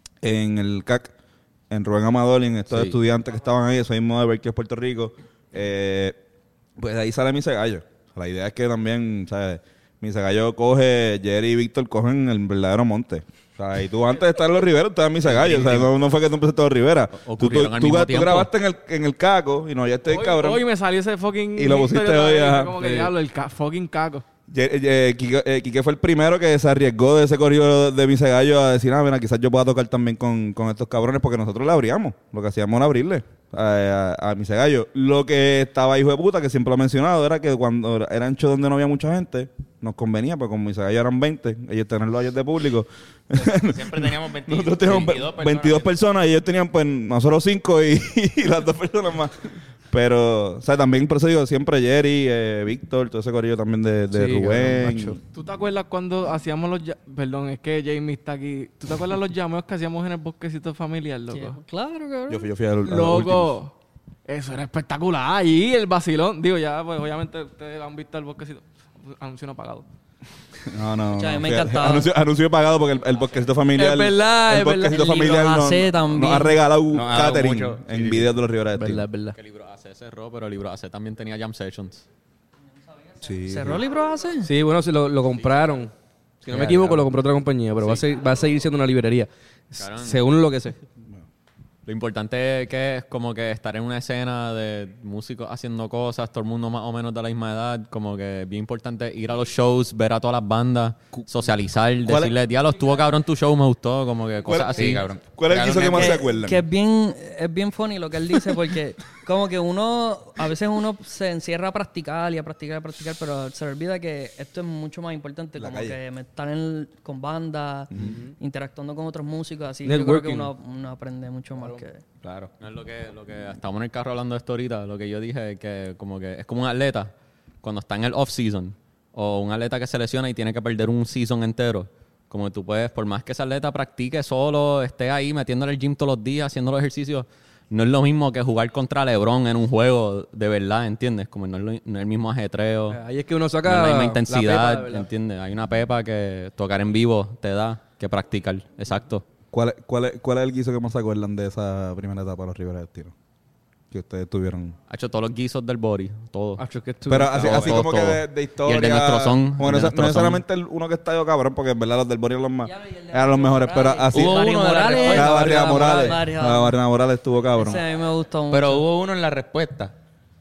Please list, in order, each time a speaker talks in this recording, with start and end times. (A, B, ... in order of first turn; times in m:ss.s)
0:00.2-0:01.1 A
0:01.7-0:06.2 A
0:06.8-0:20.6 A
0:15.2-0:15.9 B
0:17.2-0:18.5 B
0:20.1-0:24.2 C
0:21.6-0:22.7 A
0:22.8-0:23.1 D
0:24.5-0:49.4 A
0:43.3-0:45.9 E
0:49.9-0:55.2 A
0:54.1-0:55.2 D
0:55.3-1:01.6 C
1:01.3-1:02.5 F
1:02.3-1:03.5 A
1:02.8-1:03.7 C
1:04.3-1:09.8 C
1:10.7-1:19.0 A
1:11.1-1:12.1 F
1:13.7-1:15.3 D
1:14.9-1:16.6 F
1:16.9-1:18.3 E
1:18.7-1:19.3 D
1:19.3-1:22.0 B
1:23.2-1:24.5 F
1:23.2-1:23.8 A
1:24.4-1:25.9 D
1:25.4-1:25.8 B
1:26.4-1:30.7 D
1:26.5-1:27.0 B
1:27.8-1:28.0 B
1:29.8-1:30.2 B
1:31.8-1:45.0 B
1:42.0-1:42.3 A
1:44.4-1:46.6 A
1:44.7-1:46.2 E
1:45.9-2:02.0 F
1:55.6-1:56.0 A
1:57.9-1:58.2 A
1:58.0-1:58.3 D
1:59.8-2:00.5 D
2:01.6-2:01.8 D
2:02.2-2:02.5 E
2:02.6-2:07.1 B
2:07.6-2:23.0 B
2:22.9-2:25.1 D
2:23.6-2:29.2 B
2:29.5-2:33.1 A
2:33.9-2:34.7 A
2:34.9-2:36.6 B
2:36.6-2:37.8 D
2:37.1-2:47.8 A
2:37.3-2:40.4 B
2:42.6-2:46.8 F
2:44.1-2:45.9 E
2:45.7-2:46.1 D
2:47.5-2:48.8 F
2:48.5-2:49.9 E